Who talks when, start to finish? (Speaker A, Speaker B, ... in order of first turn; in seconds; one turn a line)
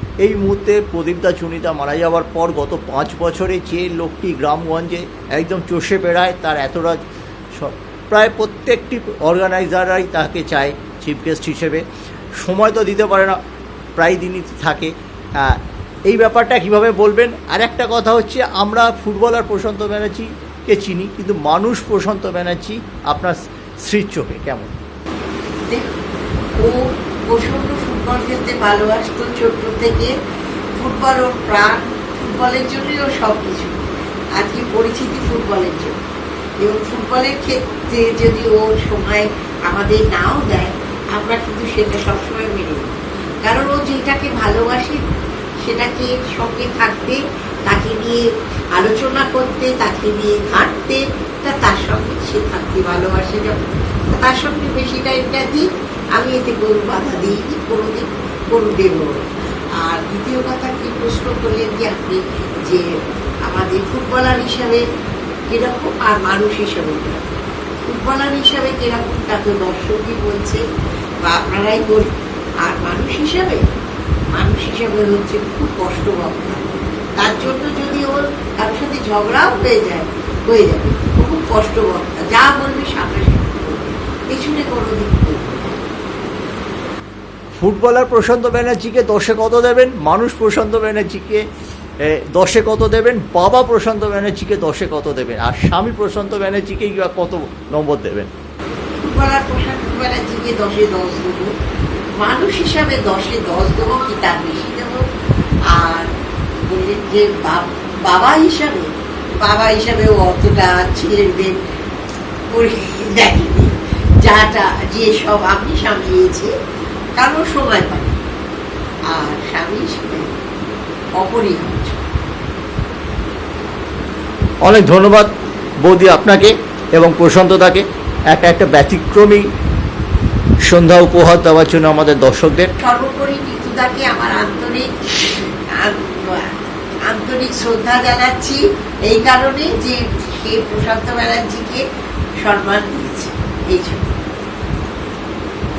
Speaker A: 0.2-7.0
Speaker A: 7.5-11.8
Speaker A: 12.4-13.4
Speaker A: 14.0-24.7
Speaker B: 25.7-26.0
Speaker B: 27.3-30.1
Speaker B: 30.8-33.8
Speaker B: 34.3-36.0
Speaker B: 36.6-45.0
Speaker B: 45.6-48.2
Speaker B: 48.7-59.2
Speaker B: 59.8-62.9
Speaker B: 63.4-64.8
Speaker B: 65.5-67.2
Speaker B: 67.9-70.6
Speaker B: 71.2-73.6
Speaker B: 74.3-76.7
Speaker B: 77.2-85.8
Speaker A: 87.6-91.4
Speaker A: 92.0-98.3
Speaker B: 99.0-101.5
Speaker B: 102.2-105.0
Speaker B: 105.7-106.1
Speaker B: 106.7-111.6
Speaker B: 112.5-116.5
Speaker B: 117.2-118.2
Speaker B: 119.1-120.3
Speaker B: 121.2-122.0
Speaker A: 124.6-125.3
Speaker A: 125.8-129.4
Speaker A: 130.6-132.7
Speaker B: 132.8-136.5
Speaker B: 137.1-141.8
Speaker B: 142.4-144.1